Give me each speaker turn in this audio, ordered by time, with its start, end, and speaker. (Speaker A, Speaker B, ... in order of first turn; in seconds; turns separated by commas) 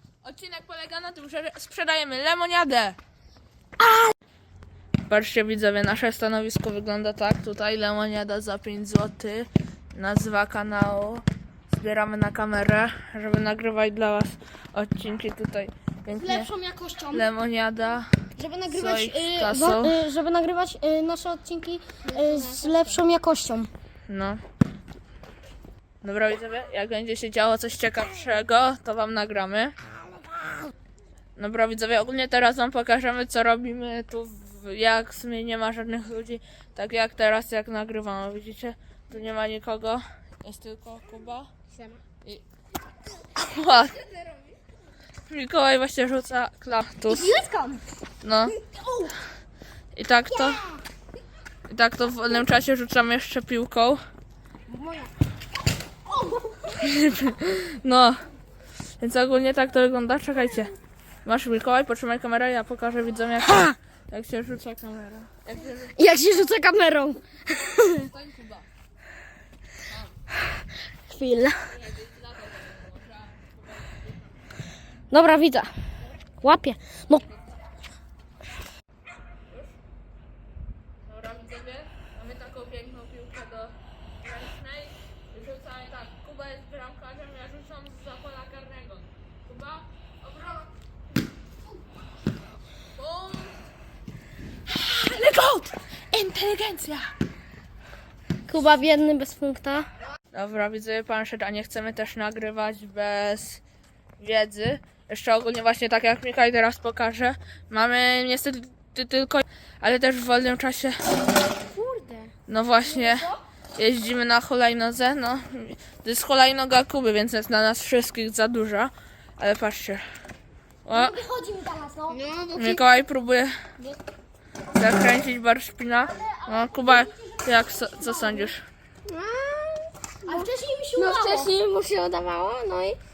Speaker A: 0.2-3.0, Speaker B: 3.8-4.1, Speaker A: 5.1-16.5, Speaker B: 16.1-17.3, Speaker A: 17.1-18.1, Speaker B: 18.4-23.7, Speaker A: 18.7-20.0, Speaker C: 22.1-23.0, Speaker A: 24.1-24.4, Speaker A: 26.0-29.7, Speaker A: 31.4-41.5, Speaker A: 43.3-44.0, Speaker A: 45.3-47.4, Speaker B: 47.1-47.8, Speaker A: 48.2-48.5, Speaker B: 48.7-49.1, Speaker A: 49.9-50.6, Speaker B: 50.3-50.8, Speaker A: 51.7-54.0, Speaker B: 54.7-55.1, Speaker B: 56.1-56.7, Speaker A: 56.7-58.2, Speaker A: 59.0-60.7, Speaker A: 61.2-66.0, Speaker B: 65.9-68.1, Speaker A: 67.9-68.7, Speaker B: 71.1-71.6, Speaker A: 71.7-74.4, Speaker B: 75.1-75.7, Speaker B: 76.4-77.2, Speaker A: 79.5-79.8, Speaker A: 81.0-90.7, Speaker A: 93.0-93.6, Speaker A: 94.7-97.1, Speaker B: 98.5-99.9, Speaker A: 100.3-103.6, Speaker A: 104.2-111.0, Speaker B: 111.8-112.0, Speaker C: 111.9-112.3, Speaker A: 112.5-120.0, Speaker B: 112.9-113.3, Speaker A: 120.8-121.2, Speaker B: 120.9-122.2, Speaker C: 122.1-122.8, Speaker A: 122.5-123.5, Speaker A: 124.7-128.6, Speaker B: 126.1-128.5, Speaker C: 129.1-133.0, Speaker B: 130.2-131.5